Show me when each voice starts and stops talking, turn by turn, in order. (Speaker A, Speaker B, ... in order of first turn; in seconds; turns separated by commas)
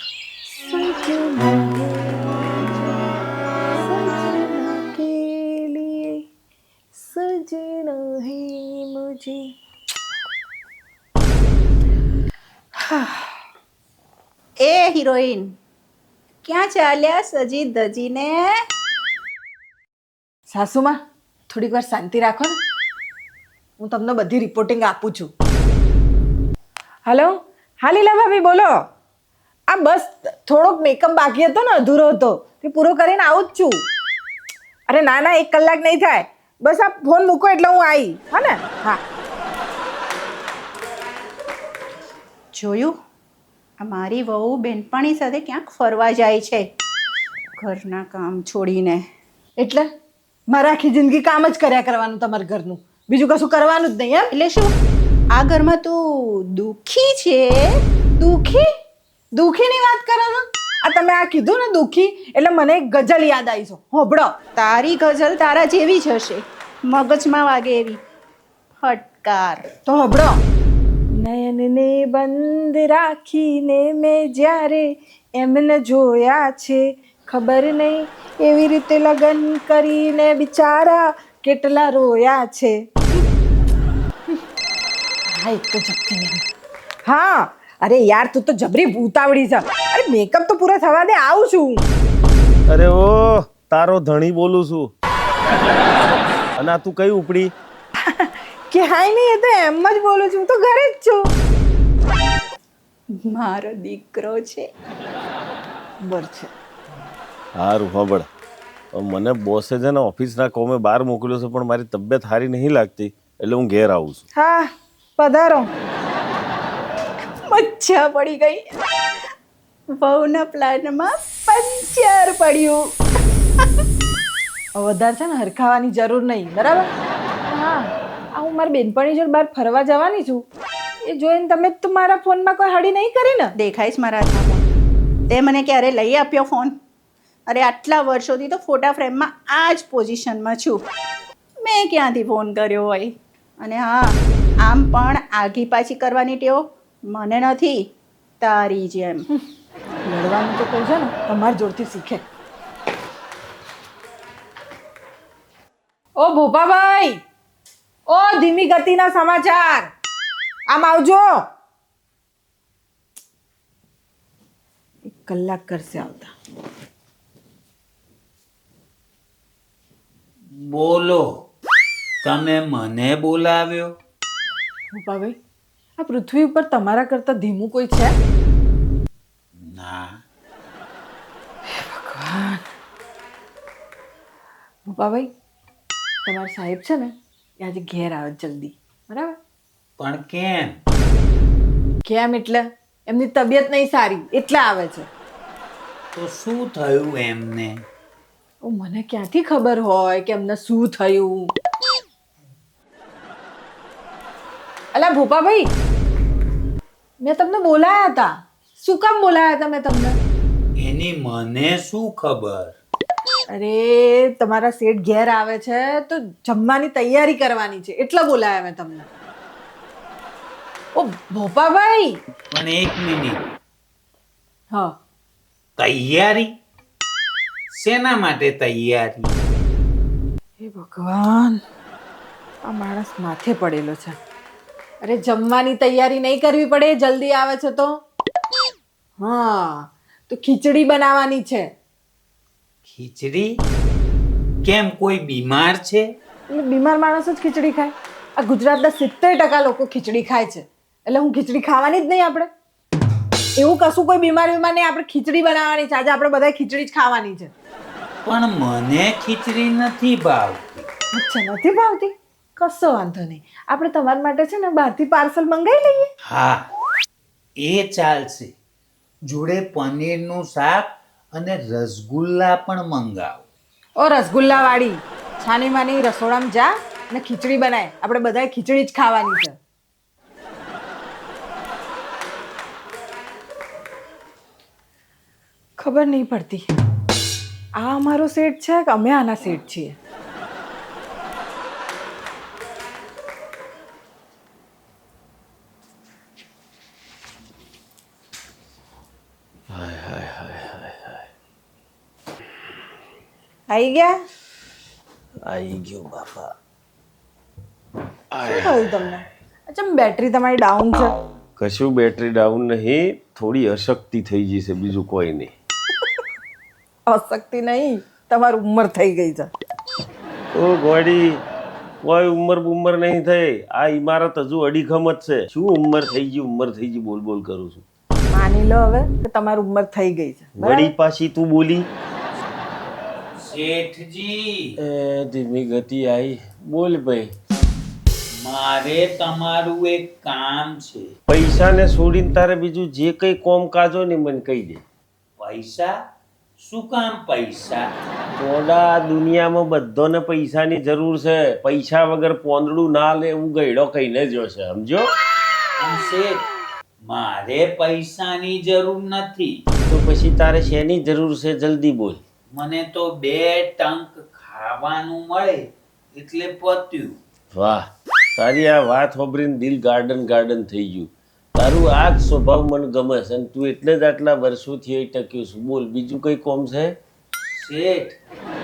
Speaker A: 0.5-3.1, Speaker A: 3.8-6.2, Speaker A: 6.9-9.5, Speaker A: 12.8-13.3, Speaker B: 14.6-15.5, Speaker B: 16.4-18.6, Speaker A: 20.5-21.0, Speaker A: 21.5-22.6, Speaker A: 23.8-25.3, Speaker A: 27.1-28.8, Speaker A: 29.7-33.8, Speaker A: 34.9-39.0, Speaker B: 42.5-43.0, Speaker B: 43.8-46.6, Speaker B: 47.6-49.0, Speaker A: 49.6-49.9, Speaker A: 50.5-54.3, Speaker B: 54.3-54.7, Speaker B: 55.3-57.7, Speaker A: 58.2-58.7, Speaker A: 59.3-64.3, Speaker B: 64.6-68.0, Speaker B: 68.8-69.7, Speaker A: 69.9-70.3, Speaker A: 71.2-83.2, Speaker A: 85.3-86.4, Speaker A: 87.0-91.8, Speaker C: 92.7-94.9, Speaker C: 96.6-97.5, Speaker A: 98.2-101.3, Speaker B: 103.3-104.7, Speaker A: 106.0-106.5, Speaker C: 107.6-108.3, Speaker C: 108.9-114.2, Speaker A: 114.3-115.7, Speaker B: 117.5-118.7, Speaker B: 120.0-122.8, Speaker A: 124.8-126.9, Speaker A: 127.5-130.4, Speaker A: 131.1-133.5, Speaker B: 133.6-134.6, Speaker B: 135.3-136.7, Speaker B: 137.5-140.8, Speaker B: 141.6-147.8, Speaker B: 148.4-149.2, Speaker A: 150.1-152.2, Speaker A: 156.2-157.2, Speaker A: 158.1-159.9, Speaker A: 160.7-161.4, Speaker A: 165.1-166.3, Speaker D: 170.5-171.2, Speaker D: 172.2-173.9, Speaker A: 174.9-175.4, Speaker A: 176.0-178.1, Speaker D: 179.6-180.1, Speaker A: 181.7-182.6, Speaker A: 184.9-185.3, Speaker A: 186.2-189.4, Speaker D: 190.0-190.8, Speaker A: 192.1-195.1, Speaker D: 196.2-197.8, Speaker A: 198.6-201.5, Speaker A: 204.9-205.7, Speaker A: 207.2-210.2, Speaker D: 210.8-212.7, Speaker A: 213.5-219.1, Speaker A: 221.0-222.2, Speaker D: 222.5-223.4, Speaker D: 225.8-226.5, Speaker D: 227.7-229.3, Speaker A: 230.6-231.6, Speaker A: 232.6-234.2, Speaker A: 235.0-237.9, Speaker A: 239.2-241.7, Speaker D: 242.9-243.5, Speaker D: 244.6-246.1, Speaker A: 246.5-252.5, Speaker A: 253.6-257.5, Speaker D: 258.2-260.9, Speaker A: 261.1-266.1, Speaker D: 266.3-266.7, Speaker D: 267.6-268.5, Speaker D: 269.3-273.4, Speaker A: 274.0-279.6, Speaker A: 285.8-286.7, Speaker A: 287.8-290.0, Speaker C: 299.7-301.2, Speaker A: 303.7-304.1, Speaker C: 305.5-306.5, Speaker C: 308.3-309.2, Speaker A: 308.4-311.1, Speaker C: 311.6-315.5, Speaker A: 317.1-319.5, Speaker C: 320.5-321.4, Speaker C: 322.0-327.8, Speaker A: 328.3-330.9, Speaker C: 330.6-331.9, Speaker D: 333.4-334.8, Speaker C: 334.8-337.3, Speaker D: 338.4-341.1, Speaker C: 341.3-344.8, Speaker D: 345.4-345.9, Speaker D: 346.6-347.8, Speaker C: 348.3-355.1, Speaker D: 355.8-356.5, Speaker D: 357.1-359.6, Speaker C: 359.9-362.2, Speaker D: 362.5-367.2, Speaker C: 367.5-367.9, Speaker C: 368.4-376.9, Speaker D: 377.4-378.2